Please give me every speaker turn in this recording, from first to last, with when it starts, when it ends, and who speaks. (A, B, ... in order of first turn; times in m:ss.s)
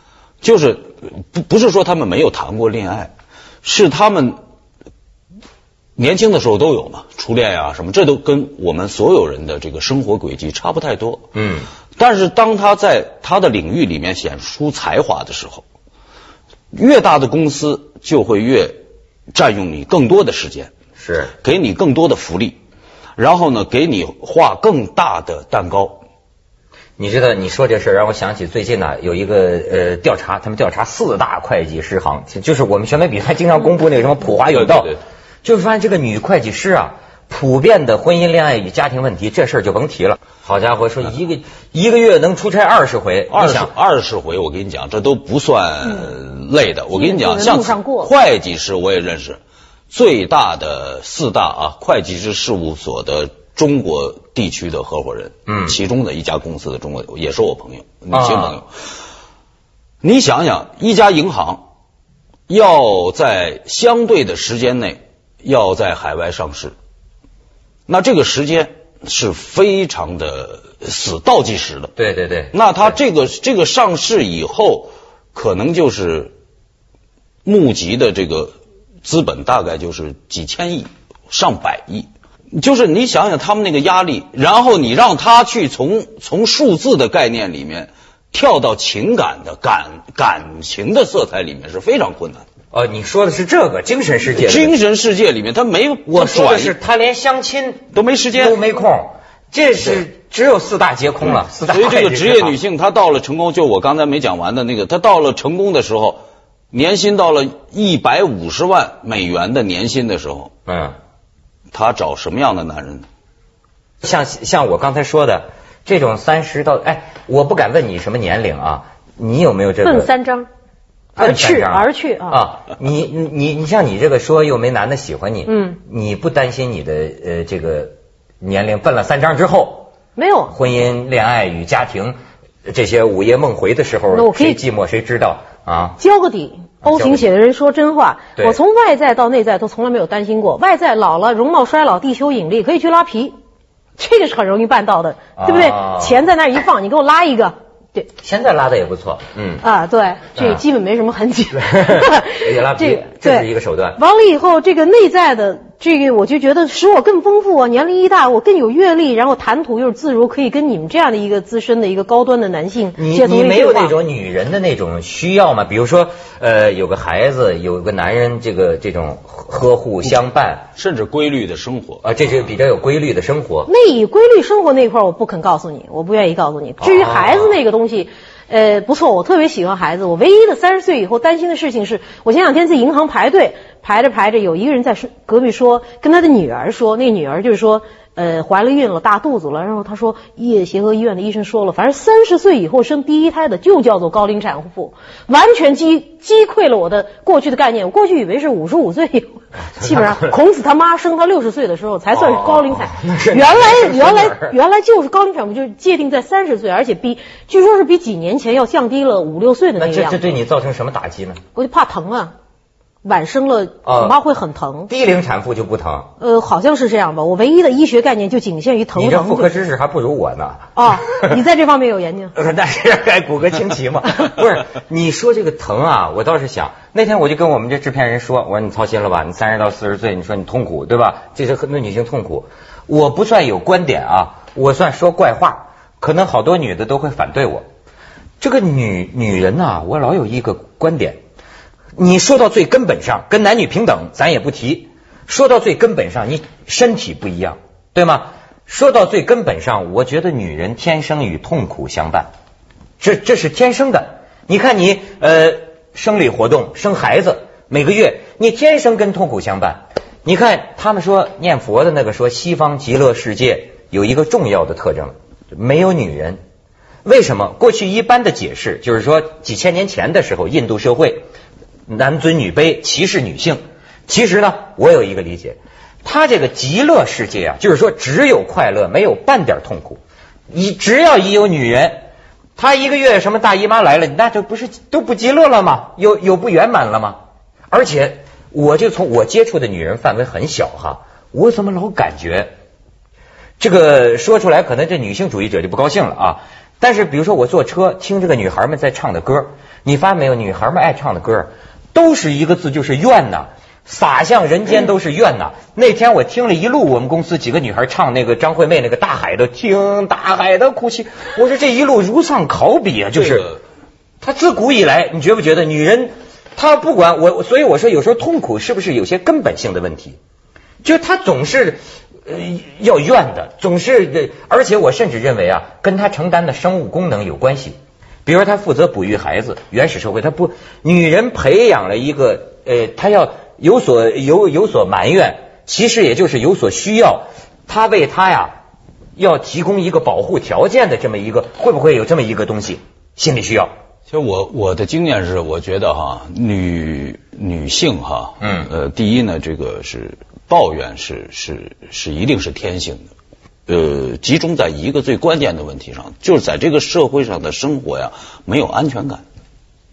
0:00.4-0:03.1 A
0:03.6-0:04.4 A
0:06.0-0:11.2 A
0:11.3-0:11.7 B
0:12.0-0:15.6 A
0:16.7-0:18.8 A
0:19.3-0:20.7 A
0:21.0-0:21.3 B
0:21.4-0:22.6 A
0:23.2-0:26.0 A
0:27.0-0:34.9 B
0:34.5-0:35.0 A
0:35.4-0:43.7 B
0:43.3-0:49.4 A
0:46.9-0:48.1 C
0:49.9-0:58.7 A
0:55.5-0:55.8 B
0:58.1-0:58.6 B
1:00.0-1:01.6 A
1:02.5-1:06.7 A
1:07.9-1:11.9 A
1:12.0-1:12.9 B
1:12.5-1:16.3 A
1:17.4-1:32.4 A
1:32.7-1:34.8 B
1:34.3-1:36.7 A
1:36.1-1:42.6 B
1:37.9-1:38.6 A
1:41.3-1:46.2 A
1:46.7-1:50.5 A
1:50.7-1:51.0 B
1:51.7-1:53.0 A
1:54.0-2:00.1 B
1:59.8-2:00.5 C
2:01.2-2:09.9 B
2:01.2-2:02.4 C
2:05.4-2:05.8 C
2:10.2-2:10.5 C
2:10.5-2:16.0 B
2:14.1-2:14.6 C
2:16.0-2:23.3 C
2:16.8-2:17.3 B
2:24.0-2:28.1 C
2:25.4-2:26.2 B
2:28.2-2:29.6 B
2:29.6-2:44.0 C
2:30.4-2:30.6 B
2:31.6-2:34.0 B
2:43.0-2:50.7 B
2:50.8-2:52.0 A
2:52.0-2:53.7 B
2:53.6-3:30.2 C
2:56.8-2:57.5 B
3:19.7-3:20.4 B
3:22.1-3:24.5 B
3:29.8-3:31.4 B
3:31.5-3:32.3 C
3:33.0-3:34.9 C
3:33.8-3:34.2 B
3:34.9-3:36.1 B
3:36.2-3:39.5 C
3:38.9-3:41.4 B
3:40.8-3:42.3 C
3:42.3-3:57.6 B
3:58.4-4:01.2 B
4:02.0-4:12.3 B
4:13.0-4:26.4 B
4:27.0-4:31.3 B
4:31.9-4:40.0 B
4:40.5-4:42.0 B
4:42.6-4:47.2 B
4:47.7-4:52.5 B
4:53.6-5:13.5 B
5:13.2-5:13.6 A
5:14.2-5:20.2 B
5:20.8-5:38.6 B
5:39.2-5:43.7 B
5:44.1-5:53.1 A
5:48.4-5:48.7 B
5:53.7-5:59.2 A